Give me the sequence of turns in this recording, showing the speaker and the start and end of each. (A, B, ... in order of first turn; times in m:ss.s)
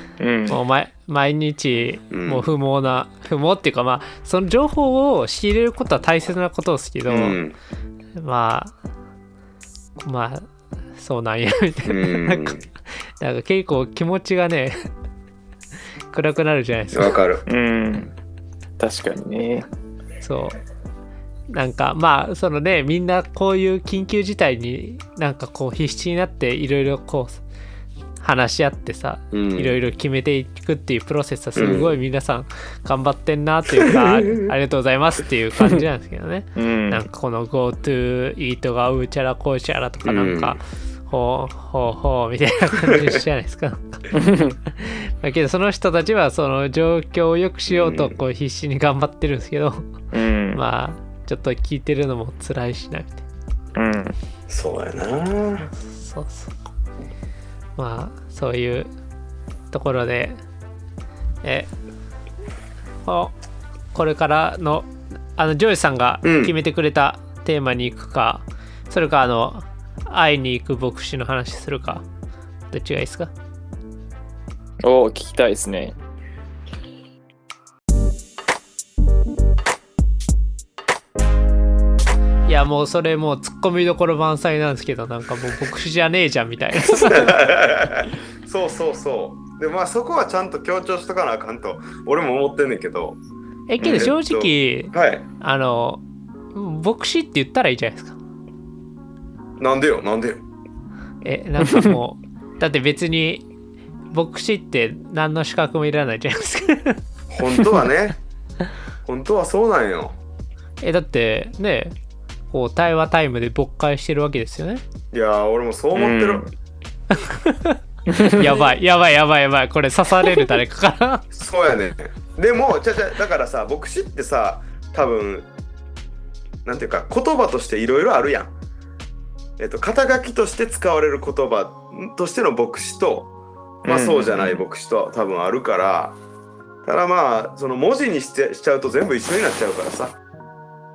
0:00.2-0:00.6 A
0:00.5-0:07.4 B
0:02.1-0:02.5 C
0:07.1-0:07.6 C
0:08.2-0:08.7 B
0:10.0-0:12.6 B
0:11.8-0:12.6 C
0:13.2-0:14.8 B
0:16.1-0:17.2 B
0:16.9-0:17.4 C
0:17.5-0:18.1 A
0:18.8-0:19.7 A
0:20.2-0:20.6 B
0:21.5-0:27.4 B
0:28.2-0:44.1 B
0:29.3-0:29.8 C
0:31.6-0:32.0 C
0:33.8-0:34.5 C
0:36.6-0:37.0 A
0:40.0-0:40.6 C
0:44.1-0:44.6 A
0:44.8-0:49.9 B
0:47.7-0:48.2 C
0:50.1-0:50.6 A
0:50.5-0:53.2 B
0:53.8-0:54.1 A
0:54.5-0:55.7 C
0:55.7-0:56.6 B
0:57.8-0:58.9 B
0:59.7-1:00.4 B
1:01.4-1:01.7 B
1:03.0-1:03.3 B
1:03.9-1:12.0 B
1:06.2-1:06.5 C
1:12.7-1:13.3 B
1:14.8-1:15.9 A
1:22.5-1:27.4 B
1:26.9-1:33.2 C
1:33.7-1:36.0 B
1:33.8-1:35.2 C
1:36.5-1:38.2 B
1:39.6-1:40.4 C
1:41.2-1:43.4 B
1:44.1-1:47.0 B
1:47.3-1:48.2 C
1:49.0-1:50.2 C
1:50.8-1:52.0 B
1:52.5-1:54.8 B
1:55.1-1:56.4 C
1:55.9-1:56.5 A
1:57.2-2:01.2 B
1:58.1-1:58.6 A
1:58.4-1:58.7 C
2:01.3-2:05.5 C
2:06.6-2:08.5 C
2:09.6-2:13.3 C
2:13.8-2:16.2 C
2:13.8-2:14.6 A
2:16.8-2:20.2 C